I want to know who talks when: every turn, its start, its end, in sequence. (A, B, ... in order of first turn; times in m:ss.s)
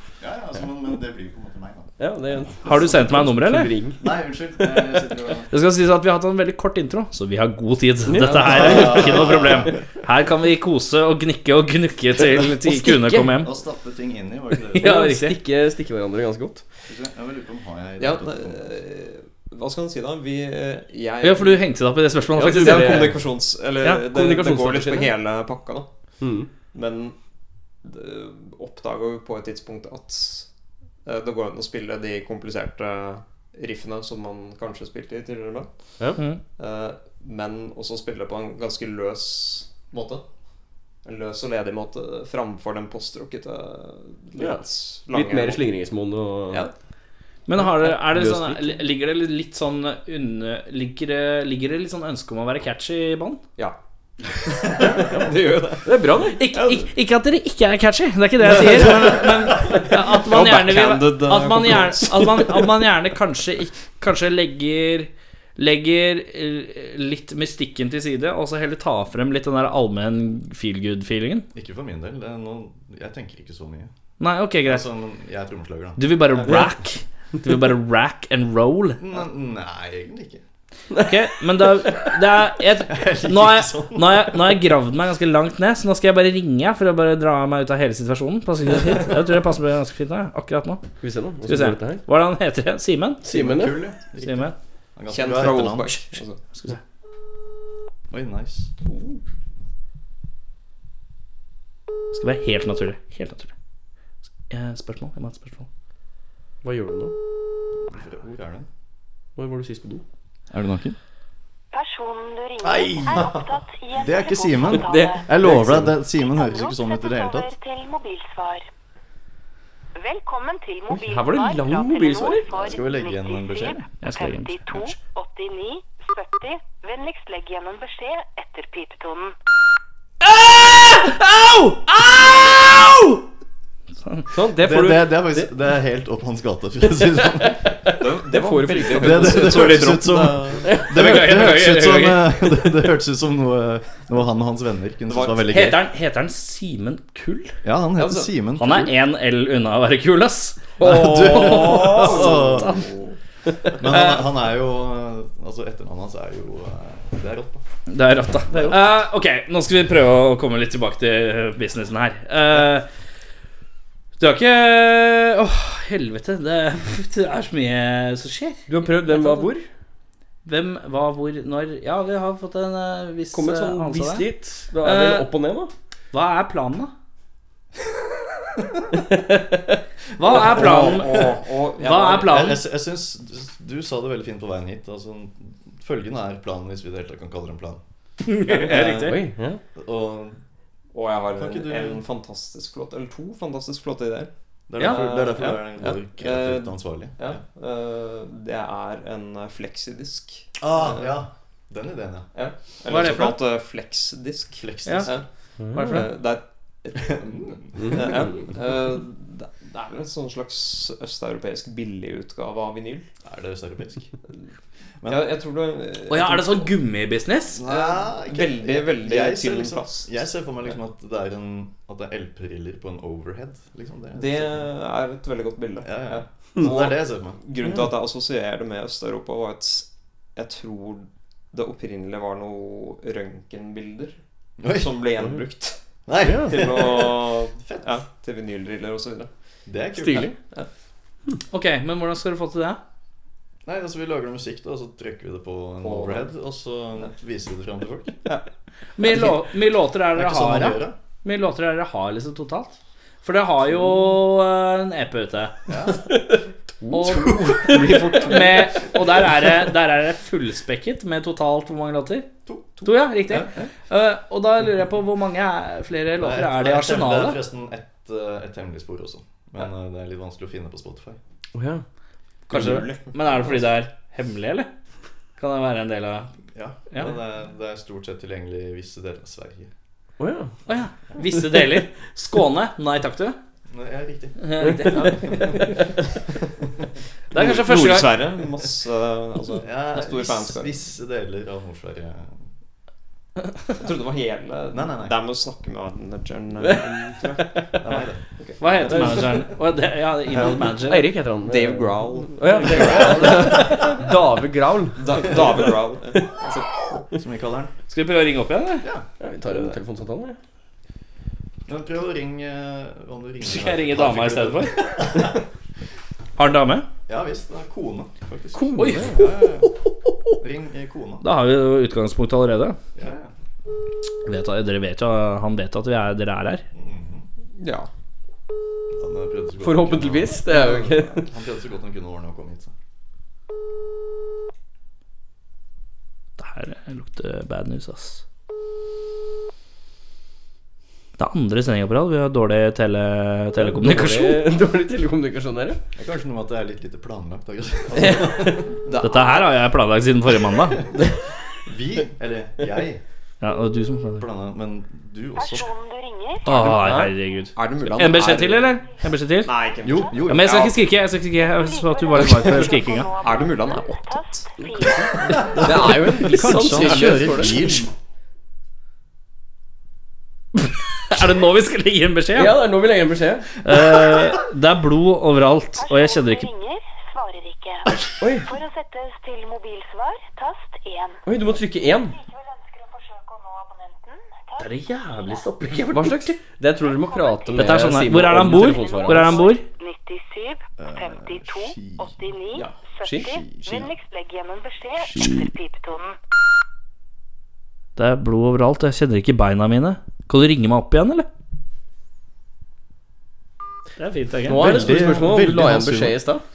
0:00.2-0:02.6 A
0:02.0-0:04.1 B
0:02.6-0:03.7 C
0:04.0-0:05.5 A
0:05.5-0:13.5 C
0:08.1-0:09.1 B
0:08.4-0:09.8 A
0:12.7-0:13.3 B
0:13.3-0:15.0 A
0:14.7-0:16.7 B
0:14.8-0:15.4 C
0:16.9-0:18.8 A
0:18.0-0:21.7 D
0:21.2-0:23.2 C
0:22.4-0:23.2 B
0:22.4-0:40.2 D
0:24.1-0:25.1 B
0:26.2-0:26.5 B
0:41.0-0:45.6 D
0:44.4-0:46.7 B
0:47.5-0:53.4 C
0:47.6-0:48.8 B
0:54.4-0:56.9 D
0:55.8-0:56.4 B
0:56.4-1:11.5 C
1:00.1-1:02.9 D
1:11.5-1:13.9 A
1:14.2-1:14.8 C
1:14.6-1:16.2 A
1:16.0-1:19.0 C
1:19.0-1:20.4 A
1:21.0-1:30.8 C
1:22.9-1:24.6 A
1:31.0-1:32.0 B
1:31.5-1:33.2 C
1:33.2-1:33.8 B
1:33.2-1:36.1 A
1:34.2-1:34.6 C
1:35.1-1:36.4 D
1:36.5-1:36.8 C
1:38.1-1:38.7 A
1:42.1-1:43.5 C
1:44.5-1:45.7 C
1:46.6-1:47.1 B
1:47.9-1:48.7 A
1:49.4-1:50.0 B
1:50.5-1:51.0 A
1:51.7-1:55.3 E
1:52.6-1:53.4 A
1:54.0-1:57.5 A
1:54.7-1:56.0 B
1:56.2-1:58.7 E
2:00.0-2:09.4 E
2:00.9-2:02.7 B
2:02.6-2:03.8 A
2:04.0-2:05.0 C
2:10.2-2:13.2 C
2:14.0-2:14.3 C
2:14.3-2:15.5 B
2:14.6-2:17.7 A
2:17.7-2:19.7 B
2:17.9-2:20.8 D
2:18.9-2:25.8 A
2:20.6-2:20.9 B
2:20.9-2:22.3 C
2:25.1-2:25.8 D
2:25.5-2:27.5 C
2:27.6-2:29.0 A
2:28.0-2:28.3 D
2:28.6-2:30.8 C
2:30.8-2:32.3 B
2:30.8-2:32.8 A
2:30.9-2:33.2 D
2:33.8-2:37.6 A
2:37.9-2:42.9 C
2:44.2-2:49.5 C
2:48.7-2:49.7 B
2:50.4-2:54.3 C
2:53.3-2:55.7 B
2:54.8-2:55.3 C
2:56.1-2:56.9 C
3:00.2-3:01.1 C
3:00.3-3:02.4 D
3:00.3-3:01.4 A
3:01.8-3:02.6 C
3:02.3-3:07.8 A
3:08.2-3:09.2 C
3:09.1-3:09.6 B
3:09.8-3:10.4 A
3:10.9-3:21.1 D
3:11.4-3:12.0 A
3:14.7-3:17.4 A
3:14.8-3:15.0 C
3:20.6-3:22.3 A
3:22.3-3:27.1 D
3:22.9-3:23.4 C
3:24.6-3:25.2 A
3:25.6-3:26.1 B
3:25.7-3:26.1 C
3:27.0-3:28.4 A
3:27.9-3:33.1 D
3:33.2-3:34.1 A
3:35.0-3:36.7 D
3:36.1-3:37.6 C
3:37.6-3:44.7 A
3:37.6-3:40.1 D
3:44.1-3:54.2 D
3:45.8-3:47.4 A
3:54.6-3:54.9 A
3:54.7-3:55.8 D
3:56.1-3:57.9 A
3:56.2-3:56.6 B
3:56.4-3:59.3 D
3:59.7-4:00.3 A
4:00.0-4:00.4 B
4:00.4-4:00.7 D
4:01.5-4:02.8 C
4:03.7-4:08.2 A
4:05.8-4:06.3 D
4:09.0-4:15.5 C
4:10.2-4:11.0 A
4:15.7-4:16.1 A
4:16.9-4:22.3 C
4:16.9-4:18.4 A
4:17.7-4:18.4 D
4:22.8-4:23.6 D
4:22.8-4:27.4 C
4:26.2-4:31.2 A
4:31.5-4:31.8 B
4:32.5-4:34.7 C
4:32.5-4:33.6 D
4:35.4-4:36.3 C
4:36.5-4:39.7 A
4:40.2-4:40.5 B
4:40.7-4:43.4 C
4:43.7-4:45.7 A
4:44.4-4:45.6 C
4:44.6-4:45.5 B
4:47.3-4:48.1 C
4:47.3-4:50.8 D
4:49.6-4:52.3 A
4:53.8-4:59.3 D
4:54.7-4:55.2 A
4:56.6-4:57.0 B
4:57.8-4:58.2 A
4:58.6-5:01.1 C
5:00.3-5:00.8 D
5:00.9-5:05.3 B
5:01.4-5:04.0 D
5:02.5-5:03.6 C
5:02.8-5:03.6 A
5:05.0-5:07.0 D
5:05.3-5:05.7 A
5:07.1-5:07.7 A
5:07.9-5:08.8 C
5:09.2-5:10.4 B
5:11.7-5:15.4 A
5:13.4-5:14.8 C
5:16.4-5:16.9 C
5:17.1-5:19.7 A
5:18.5-5:19.3 C
5:18.8-5:19.2 B
5:20.4-5:21.3 A
5:21.2-5:22.8 C
5:23.0-5:23.3 A
5:24.2-5:26.6 C
5:26.7-5:27.3 A
5:27.6-5:27.9 D
5:28.9-5:32.7 A
5:29.6-5:31.3 B
5:36.4-5:38.2 C
5:41.2-5:44.5 C
5:43.6-5:45.8 B
5:46.0-5:48.9 A
5:48.8-5:49.5 D
5:49.0-5:50.9 C
5:51.7-5:53.0 A
5:53.4-5:54.3 C
5:54.2-5:55.7 A
5:55.4-5:56.5 E
5:56.4-5:59.5 C
5:56.6-5:57.1 B
5:57.6-5:58.8 D
5:59.4-6:00.8 D
5:59.8-6:00.5 A
6:00.3-6:03.1 C
6:01.5-6:05.7 E
6:03.2-6:04.4 D
6:04.6-6:07.8 B
6:05.3-6:07.9 A
6:06.7-6:07.7 D
6:10.6-6:12.6 C
6:12.4-6:13.5 B
6:13.6-6:16.5 C
6:15.8-6:21.2 E
6:18.2-6:18.5 B
6:21.3-6:22.2 B
6:22.2-6:25.4 E
6:24.6-6:26.3 C
6:25.9-6:29.4 B
6:26.8-6:36.2 E
6:27.6-6:29.6 C
6:30.8-6:32.1 A
6:33.2-6:33.9 A
6:38.0-6:41.3 C
6:44.0-6:45.1 C
6:44.5-6:46.4 B
6:44.5-6:46.2 A